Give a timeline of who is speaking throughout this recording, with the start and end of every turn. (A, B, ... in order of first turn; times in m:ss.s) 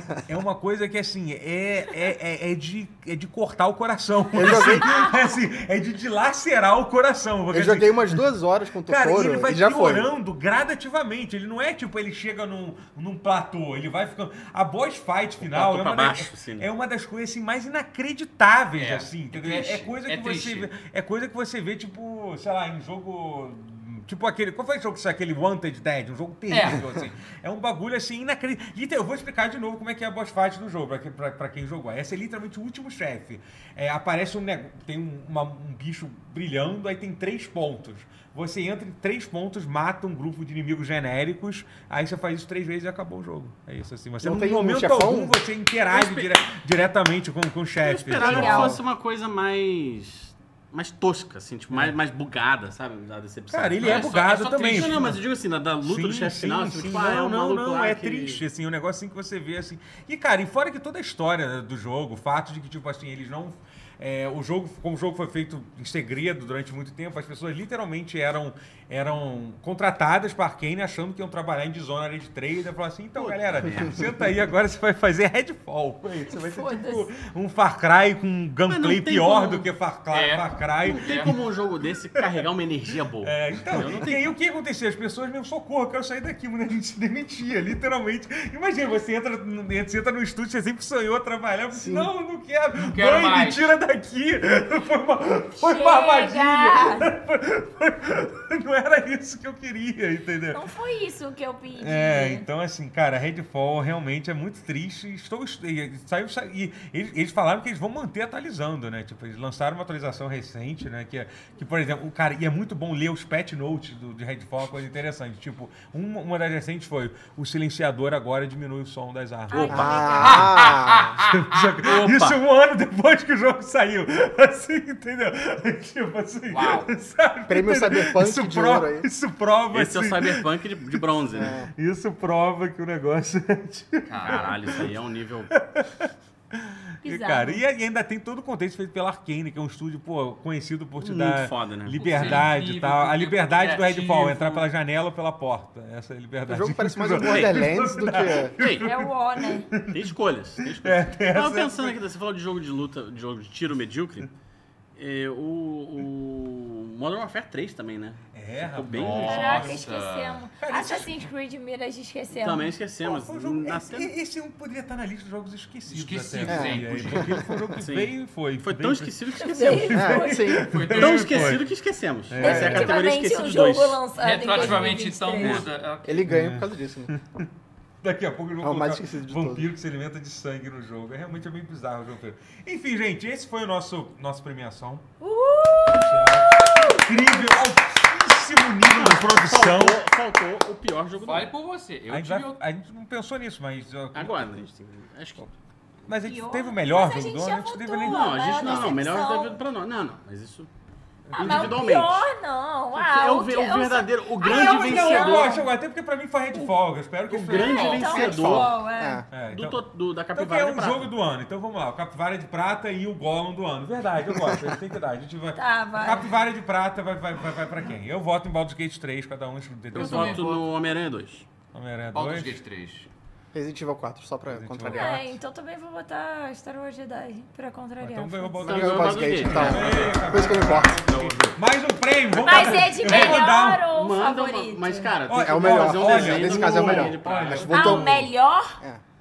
0:00.3-0:08.2 A
0:04.3-0:05.1 B
0:04.8-0:05.1 C
0:07.5-0:10.1 B
0:08.9-0:48.8 A
0:15.4-0:16.7 D
0:18.8-0:20.7 E
0:26.5-0:26.8 E
0:44.2-0:45.4 B
0:45.9-0:46.3 D
0:47.8-0:58.4 D
0:48.2-0:48.8 C
0:53.5-0:55.2 A
0:53.8-0:55.2 E
0:55.8-1:21.4 A
1:13.2-1:14.1 D
1:16.3-1:17.1 C
1:18.7-1:19.7 D
1:20.1-1:21.4 E
1:20.8-1:24.3 D
1:22.2-1:22.5 A
1:23.2-1:40.6 A
1:31.7-1:32.1 B
1:32.8-1:33.7 E
1:35.6-1:37.1 C
1:40.5-1:42.5 C
1:41.8-2:00.5 A
1:59.5-2:00.7 C
1:59.6-2:02.0 E
1:59.7-2:01.2 B
2:01.2-2:14.9 A
2:01.8-2:02.4 D
2:06.5-2:06.9 E
2:07.5-2:09.1 B
2:09.7-2:11.6 D
2:11.3-2:11.7 B
2:14.1-2:14.6 E
2:14.2-2:15.5 D
2:15.5-2:32.0 A
2:17.0-2:17.6 C
2:21.0-2:22.5 D
2:22.0-2:24.7 E
2:26.5-2:28.6 B
2:27.2-2:27.6 D
2:28.6-2:28.9 D
2:28.8-2:29.7 C
2:29.9-2:34.3 D
2:35.0-2:39.6 D
2:38.3-2:39.8 A
2:38.9-2:40.4 E
2:39.2-2:42.7 C
2:40.6-2:41.3 A
2:42.3-2:44.1 D
2:43.0-2:51.7 A
2:45.9-2:47.4 E
2:46.5-2:47.6 B
2:47.8-2:50.0 D
2:49.4-2:50.6 C
2:49.9-2:50.8 B
2:50.7-2:51.6 E
2:50.9-2:54.0 D
2:52.3-2:53.0 A
2:52.4-2:55.7 C
2:52.4-2:52.7 B
2:54.2-2:56.3 E
2:55.4-2:55.7 D
2:56.0-2:57.1 B
2:56.3-2:57.5 A
2:58.0-3:05.1 A
2:58.6-2:59.7 B
3:05.2-3:07.5 C
3:05.9-3:10.0 A
3:08.8-3:11.5 D
3:11.2-3:12.6 E
3:12.1-3:14.5 A
3:14.1-3:15.5 D
3:16.1-3:18.7 A
3:16.2-3:19.6 C
3:18.0-3:20.7 D
3:21.3-3:21.8 A
3:21.4-3:22.3 D
3:21.4-3:25.7 C
3:23.0-3:25.6 D
3:24.4-3:27.9 A
3:27.3-3:28.8 D
3:27.5-3:29.2 C
3:27.5-3:28.1 E
3:27.9-3:29.3 B
3:29.3-3:40.5 A
3:29.5-3:31.1 D
3:34.4-3:34.7 B
3:35.6-3:36.3 C
3:39.9-3:41.5 D
3:39.9-3:40.6 E
3:41.7-3:42.6 A
3:42.1-3:43.1 E
3:43.5-3:45.2 B
3:44.5-3:45.4 A
3:44.9-3:48.7 C
3:48.0-3:53.8 A
3:48.6-3:51.1 B
3:48.6-3:51.6 D
3:52.4-3:55.2 C
3:53.0-3:57.8 D
3:55.3-3:58.3 A
3:55.3-3:58.3 B
3:57.7-3:58.8 C